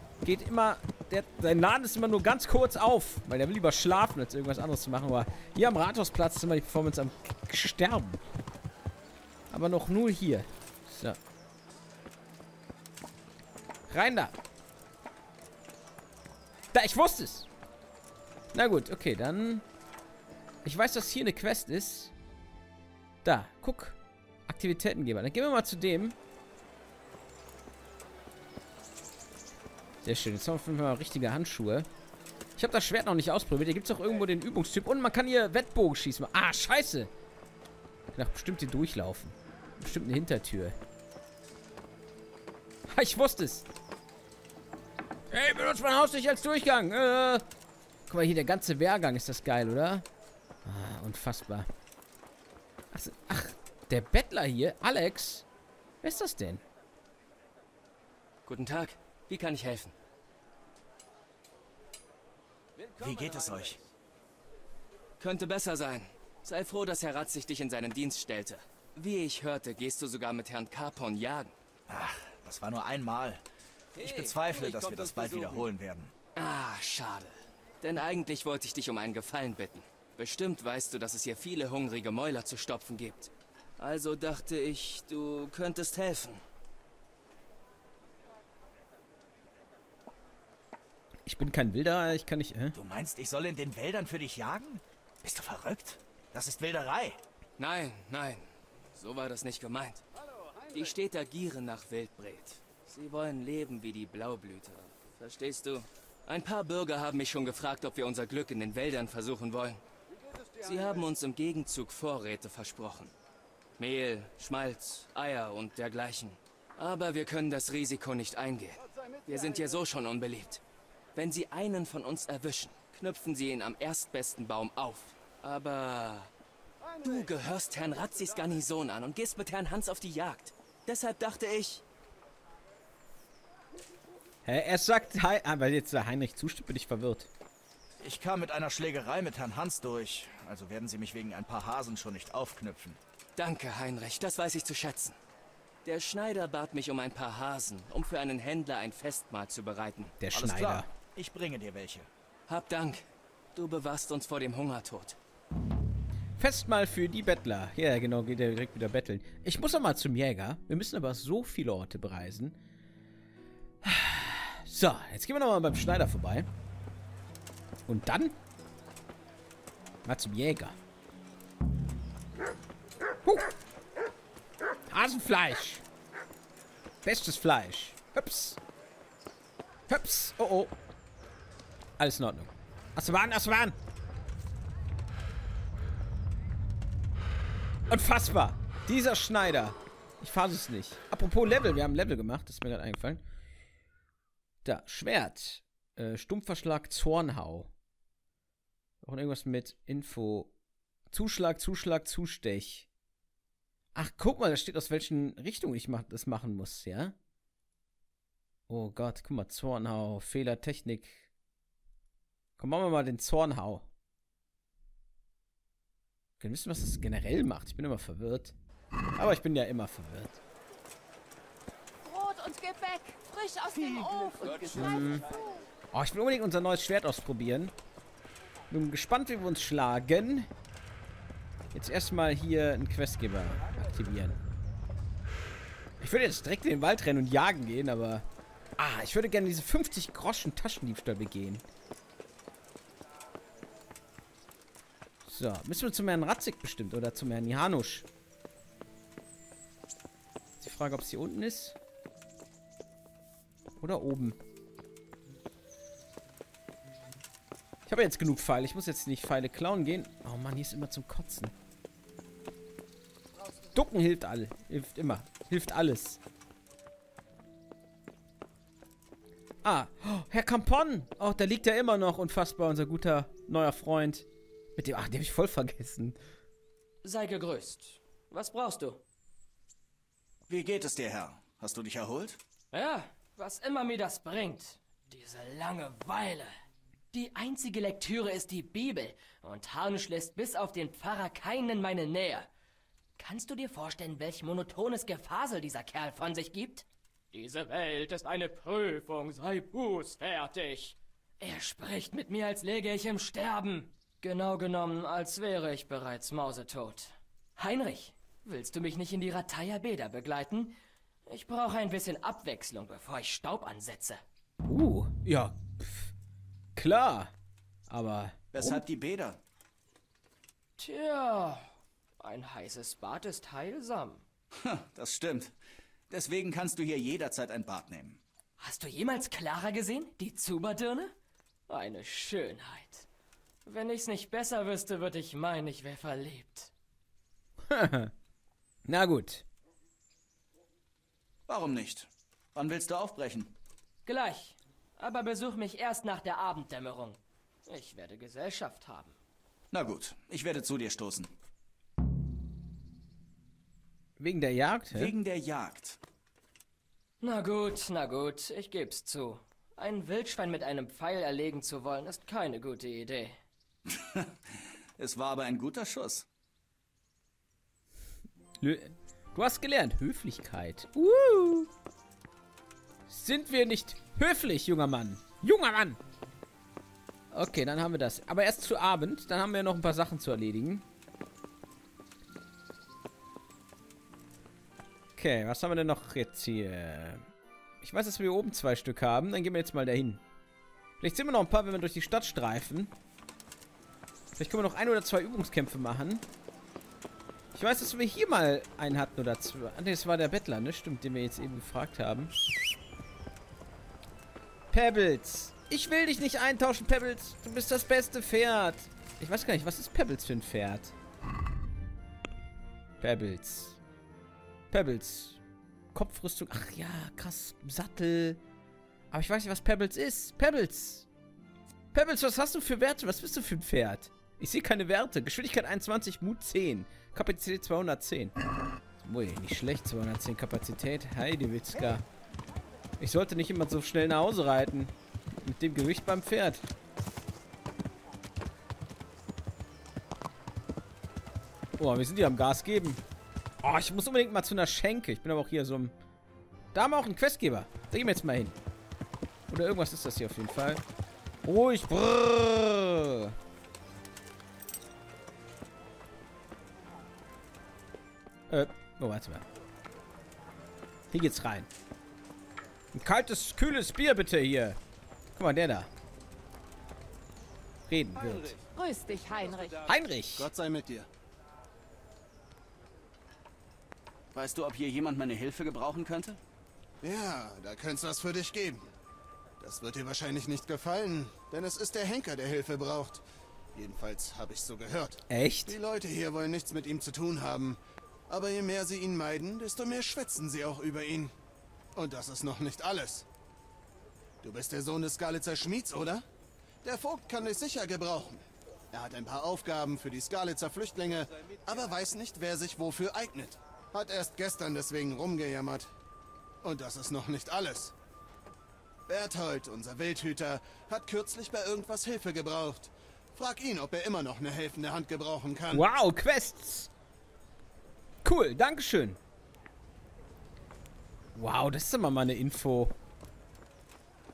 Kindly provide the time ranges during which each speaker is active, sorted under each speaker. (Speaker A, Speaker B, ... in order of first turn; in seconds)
Speaker A: 0.2-8.2, 9.5-11.2, 13.9-14.4, 16.7-17.5, 18.5-19.6, 20.6-22.1, 23.2-26.2, 30.0-31.9, 32.6-37.1, 38.1-40.8, 42.9-43.7, 45.3-47.5, 48.1-50.1, 50.6-51.7, 52.9-55.5, 56.0-56.6, 91.3-92.8, 134.4-137.3, 150.2-150.9, 156.4-162.6, 163.8-166.5, 167.9-168.4, 170.0-170.8, 173.2-173.5, 174.9-175.8, 177.0-178.6, 179.9-180.7, 182.0-183.8, 187.9-193.2, 194.6-197.7, 199.0-200.5, 201.1-202.9, 203.9-207.2, 208.7-211.3, 212.6-213.9, 216.4-218.5, 219.2-220.4, 224.7-225.2, 225.9-227.7, 228.7-230.5, 231.7-234.4, 236.0-238.3, 238.8-241.7, 245.2-248.1, 250.6-251.8, 253.8-254.4, 257.9-261.6, 263.7-266.2, 269.6-276.2, 314.6-316.1, 316.8-317.3, 317.9-318.8, 337.6-338.1, 338.9-339.4, 354.2-355.1, 368.6-371.7, 373.1-376.0, 377.3-380.9, 385.2-387.2, 387.8-390.2, 391.0-392.9, 394.4-396.3, 397.5-402.3, 404.7-410.9, 413.0-413.8, 414.7-415.4, 415.9-418.4, 419.1-421.1, 421.9-428.4, 429.0-432.1, 433.0-436.7, 441.8-443.0, 443.6-445.9, 446.7-448.6, 449.5-450.8, 451.4-453.4, 458.5-459.4, 461.1-461.7, 462.9-464.8, 465.4-465.9, 467.9-468.6, 469.9-470.5, 485.3-485.8, 515.7-516.9, 518.2-519.2, 521.4-523.0
Speaker B: 58.5-59.9, 65.2-71.5, 74.0-74.4, 76.3-86.4, 97.6-100.0, 100.7-109.8, 110.6-113.1, 113.8-120.6, 121.2-126.3, 127.0-131.8, 143.4-145.2, 145.8-150.2, 152.5-155.2
Speaker C: 63.0-63.8, 71.9-73.4, 74.0-76.1, 92.7-97.2, 138.0-143.0, 150.3-152.1, 280.5-282.4, 318.5-319.4, 324.6-325.6, 326.1-328.2, 341.5-343.5, 349.7-351.3, 354.9-356.0, 363.9-364.4, 365.0-366.3, 474.3-476.4
Speaker D: 222.0-225.5, 468.7-469.9
Speaker E: 277.0-279.0, 282.7-286.5, 287.1-292.5, 293.2-310.8, 311.3-314.2, 320.8-324.2, 328.6-331.1, 331.7-333.1, 333.6-336.7, 344.1-349.2, 357.2-363.4
Speaker F: 470.4-471.1, 477.0-478.9, 479.6-483.2, 483.7-491.3, 492.0-493.3, 494.4-496.2, 496.8-505.9, 506.6-507.9, 509.1-515.9